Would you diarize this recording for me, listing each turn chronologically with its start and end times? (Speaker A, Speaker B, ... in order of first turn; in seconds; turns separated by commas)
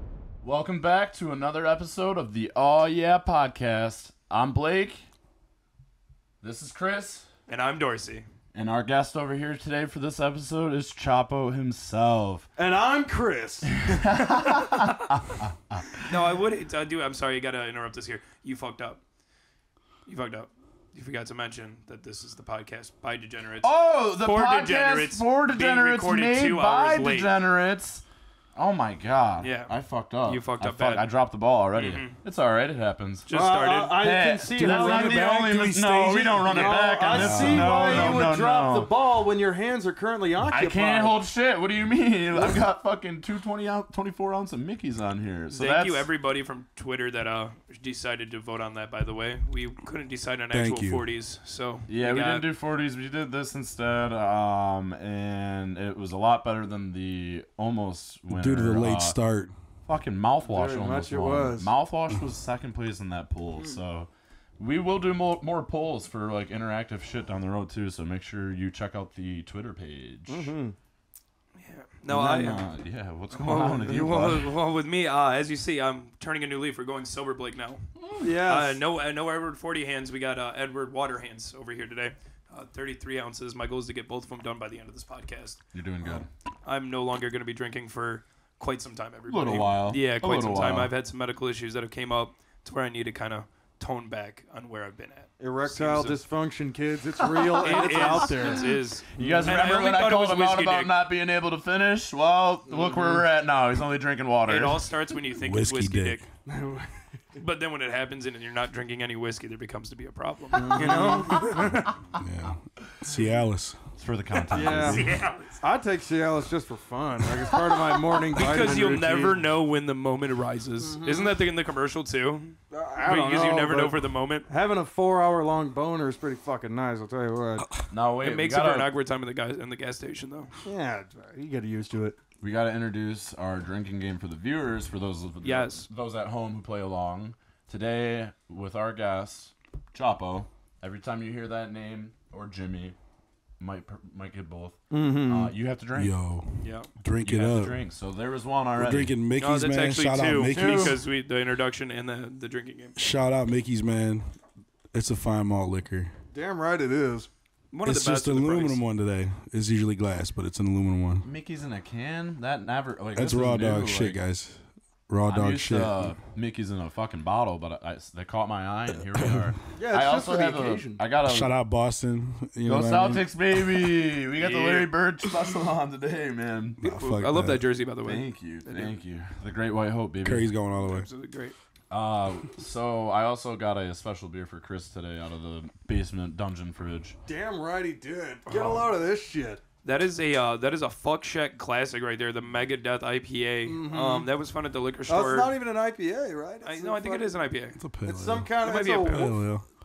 Speaker A: 0.4-5.0, Speaker A: 6.4-7.3, Speaker B: 7.5-8.3, Speaker A: 8.5-12.5, Speaker C: 12.6-13.8, Speaker A: 13.8-16.1, Speaker B: 16.1-19.0, Speaker B: 20.1-23.7, Speaker A: 23.6-28.0, Speaker B: 24.2-27.3, Speaker A: 28.6-33.3, Speaker B: 29.4-29.7, Speaker B: 30.2-31.1, Speaker B: 31.8-32.2, Speaker B: 33.3-34.0, Speaker C: 33.3-35.4, Speaker A: 33.9-38.9, Speaker D: 34.6-38.2, Speaker C: 36.4-41.2, Speaker A: 40.5-46.1, Speaker C: 42.3-42.6, Speaker B: 45.5-52.5, Speaker D: 50.5-51.0, Speaker A: 51.9-59.2, Speaker D: 58.3-59.5, Speaker A: 59.9-70.5, Speaker C: 60.4-61.7, Speaker C: 70.3-70.8, Speaker B: 71.6-72.6, Speaker A: 72.1-74.5, Speaker B: 73.3-77.9, Speaker C: 78.2-78.8, Speaker B: 78.4-85.6, Speaker A: 85.7-86.3, Speaker B: 86.7-96.2, Speaker A: 89.3-90.9, Speaker C: 95.4-98.7, Speaker B: 97.6-100.9, Speaker A: 97.7-98.6, Speaker C: 99.2-99.5, Speaker A: 99.2-104.8, Speaker C: 102.7-103.2, Speaker B: 104.5-106.2, Speaker D: 105.4-106.2, Speaker C: 106.5-106.9, Speaker B: 107.4-111.9, Speaker C: 110.5-111.7, Speaker D: 112.2-113.8, Speaker A: 114.0-115.2, Speaker B: 114.4-115.6, Speaker C: 114.5-119.4, Speaker B: 118.3-124.5, Speaker C: 120.8-121.4, Speaker C: 122.7-127.7, Speaker A: 127.9-128.9, Speaker B: 128.2-130.5, Speaker C: 130.7-132.2, Speaker A: 132.4-142.9, Speaker B: 135.4-135.9, Speaker A: 143.6-146.2, Speaker C: 144.9-145.5, Speaker D: 145.9-147.8, Speaker B: 146.6-146.9, Speaker A: 147.2-149.1, Speaker D: 148.8-151.0, Speaker B: 149.4-153.0, Speaker A: 150.5-151.0, Speaker D: 153.0-154.3, Speaker D: 154.9-156.1, Speaker C: 156.3-157.3, Speaker B: 157.7-158.8, Speaker D: 157.8-161.3, Speaker A: 161.2-164.2, Speaker D: 163.2-166.2, Speaker A: 165.3-171.5, Speaker D: 169.1-169.5, Speaker C: 169.8-171.0, Speaker D: 171.2-173.3, Speaker A: 172.7-176.8, Speaker B: 174.4-174.9, Speaker D: 176.8-177.7, Speaker B: 176.8-178.9, Speaker A: 178.0-180.5, Speaker D: 180.2-181.1, Speaker B: 180.8-181.6, Speaker A: 181.9-187.2, Speaker C: 187.3-189.6, Speaker B: 188.5-188.9, Speaker B: 189.8-195.5, Speaker C: 193.7-194.3, Speaker C: 195.1-197.5, Speaker B: 196.6-197.8, Speaker D: 197.8-198.5, Speaker C: 198.1-199.4, Speaker B: 198.6-199.3, Speaker D: 199.1-199.7